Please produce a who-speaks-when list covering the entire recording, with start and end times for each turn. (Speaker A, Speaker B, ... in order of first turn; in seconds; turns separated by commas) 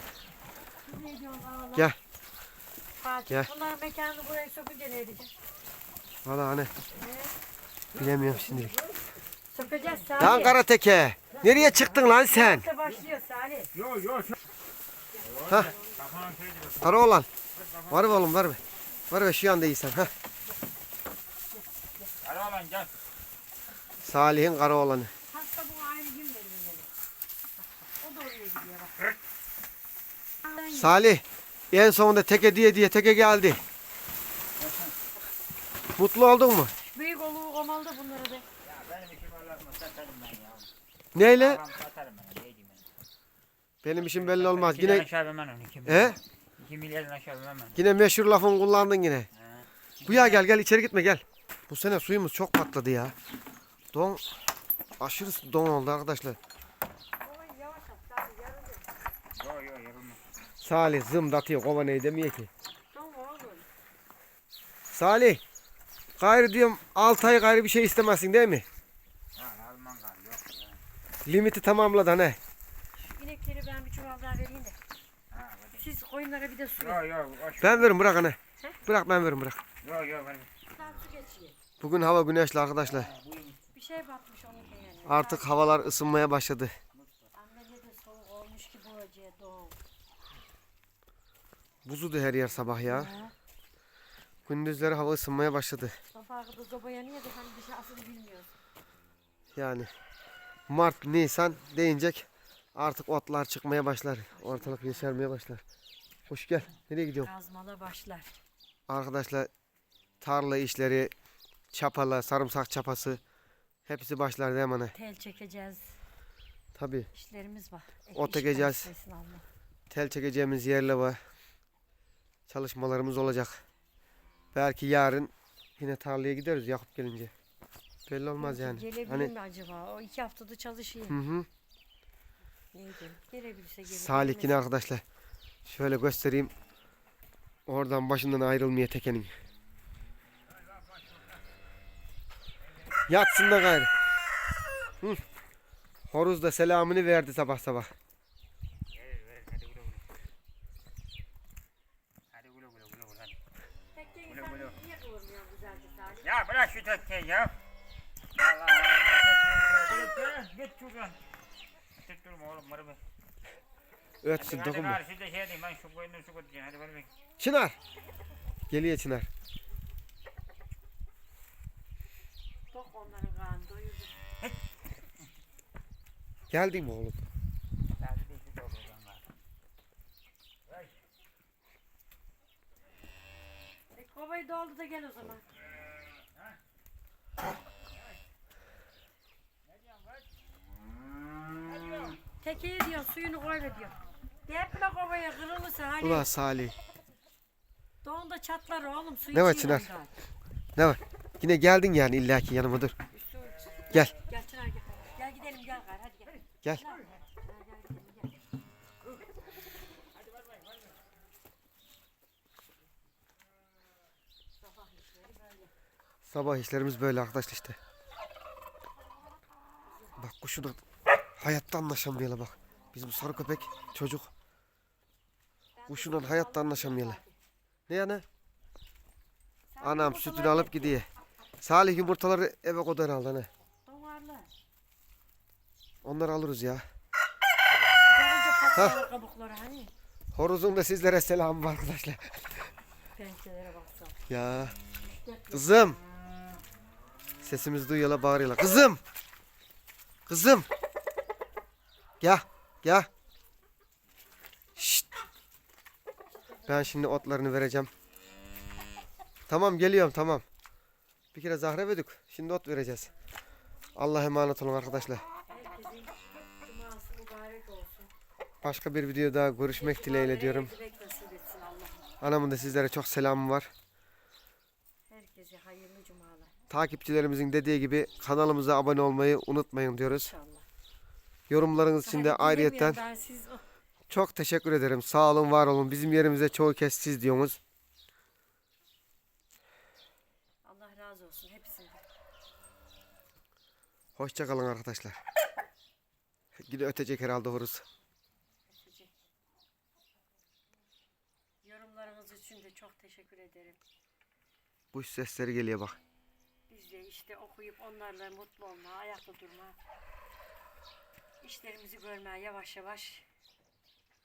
Speaker A: 0.9-1.9, Speaker A: 3.0-5.3, Speaker B: 6.2-6.7, Speaker A: 7.0-7.3, Speaker B: 7.9-8.8, Speaker A: 9.5-10.6, Speaker B: 10.2-12.7, Speaker A: 11.8-13.7, Speaker C: 13.7-14.3, Speaker A: 15.1-16.0, Speaker C: 15.2-17.0, Speaker B: 16.8-17.3, Speaker C: 17.5-18.2, Speaker B: 17.9-20.1, Speaker C: 22.2-22.9, Speaker B: 24.0-25.1, Speaker A: 25.3-26.9, Speaker A: 28.0-29.0, Speaker A: 30.4-31.0, Speaker B: 30.7-33.6, Speaker C: 34.6-34.9, Speaker B: 36.0-36.7, Speaker A: 36.9-38.4, Speaker C: 38.6-40.7, Speaker B: 41.1-41.6, Speaker C: 41.3-42.8, Speaker B: 43.8-45.1, Speaker C: 43.9-47.8, Speaker B: 45.8-46.2, Speaker B: 47.8-49.3, Speaker C: 49.4-50.4, Speaker B: 50.0-53.1, Speaker B: 53.9-54.2, Speaker B: 55.0-56.4, Speaker A: 57.2-58.9, Speaker C: 59.4-60.2, Speaker B: 60.6-62.5, Speaker A: 62.9-63.6, Speaker B: 64.9-65.4, Speaker B: 66.2-68.7, Speaker C: 69.4-70.8, Speaker B: 71.2-72.4, Speaker A: 73.0-74.8, Speaker C: 75.3-75.8, Speaker A: 75.8-77.0, Speaker C: 76.8-77.9, Speaker B: 77.6-79.6, Speaker C: 79.8-80.5, Speaker A: 80.8-81.6, Speaker B: 81.8-83.1, Speaker C: 82.8-83.7, Speaker A: 83.7-85.7, Speaker B: 85.0-86.7, Speaker C: 86.9-87.3, Speaker A: 87.3-89.8, Speaker B: 91.8-93.1, Speaker A: 92.8-93.3, Speaker B: 94.5-96.0, Speaker A: 96.1-98.5, Speaker B: 99.5-99.9, Speaker B: 100.7-105.6, Speaker A: 104.3-105.1, Speaker B: 106.3-107.3, Speaker A: 107.2-108.3, Speaker B: 108.9-109.5, Speaker B: 110.2-111.1, Speaker B: 111.7-113.2, Speaker B: 113.9-114.9, Speaker A: 114.9-116.0, Speaker B: 116.8-117.1, Speaker A: 117.1-119.4, Speaker B: 118.1-118.9, Speaker B: 119.9-121.2, Speaker B: 122.5-123.6, Speaker B: 124.5-127.3, Speaker B: 128.1-129.3, Speaker A: 128.4-131.2, Speaker B: 131.1-131.5, Speaker A: 132.7-134.6, Speaker B: 133.8-135.0, Speaker B: 135.7-136.5, Speaker B: 137.7-139.3, Speaker B: 143.1-143.9, Speaker B: 146.1-147.9, Speaker C: 148.9-150.0, Speaker C: 152.3-153.4, Speaker A: 153.9-156.3, Speaker C: 154.3-154.7, Speaker C: 156.2-157.6, Speaker C: 158.3-161.2, Speaker C: 162.0-163.0, Speaker B: 164.2-165.0, Speaker C: 164.3-167.1, Speaker B: 167.4-167.8, Speaker B: 168.7-169.3, Speaker A: 172.7-174.1, Speaker B: 176.5-177.2, Speaker C: 178.0-179.2, Speaker A: 183.9-185.5, Speaker C: 189.7-190.2, Speaker C: 191.7-192.2, Speaker A: 192.4-196.3, Speaker B: 196.0-196.7, Speaker A: 198.0-200.1, Speaker B: 199.3-199.9, Speaker B: 200.8-202.9, Speaker A: 203.9-208.3, Speaker A: 214.6-215.7, Speaker B: 216.2-217.8, Speaker B: 220.2-220.8, Speaker B: 221.4-224.3, Speaker A: 225.8-227.3, Speaker B: 225.9-227.2, Speaker B: 227.9-228.2, Speaker A: 229.7-230.9, Speaker B: 229.8-231.0, Speaker B: 231.6-233.5, Speaker A: 233.8-234.5, Speaker B: 236.0-236.8, Speaker A: 238.0-239.9, Speaker B: 240.3-242.6, Speaker A: 243.2-244.2, Speaker B: 244.3-244.7, Speaker A: 245.0-245.7, Speaker B: 245.5-246.0, Speaker B: 247.4-249.0, Speaker B: 250.3-250.7, Speaker B: 252.2-253.1, Speaker B: 254.8-255.1, Speaker B: 256.6-257.9, Speaker B: 259.5-260.4, Speaker B: 261.3-263.1, Speaker B: 263.9-265.2, Speaker A: 265.5-268.1, Speaker B: 268.6-270.7, Speaker A: 269.7-272.1, Speaker B: 272.2-273.7, Speaker A: 275.1-276.5, Speaker B: 276.7-280.3, Speaker A: 280.2-280.6, Speaker B: 281.5-283.0, Speaker A: 282.0-283.6, Speaker B: 284.1-287.6, Speaker A: 290.6-292.0, Speaker B: 294.1-295.2, Speaker B: 296.6-297.8, Speaker A: 298.7-299.2, Speaker A: 301.6-303.8, Speaker B: 304.9-306.0, Speaker A: 306.7-309.8, Speaker A: 311.4-313.2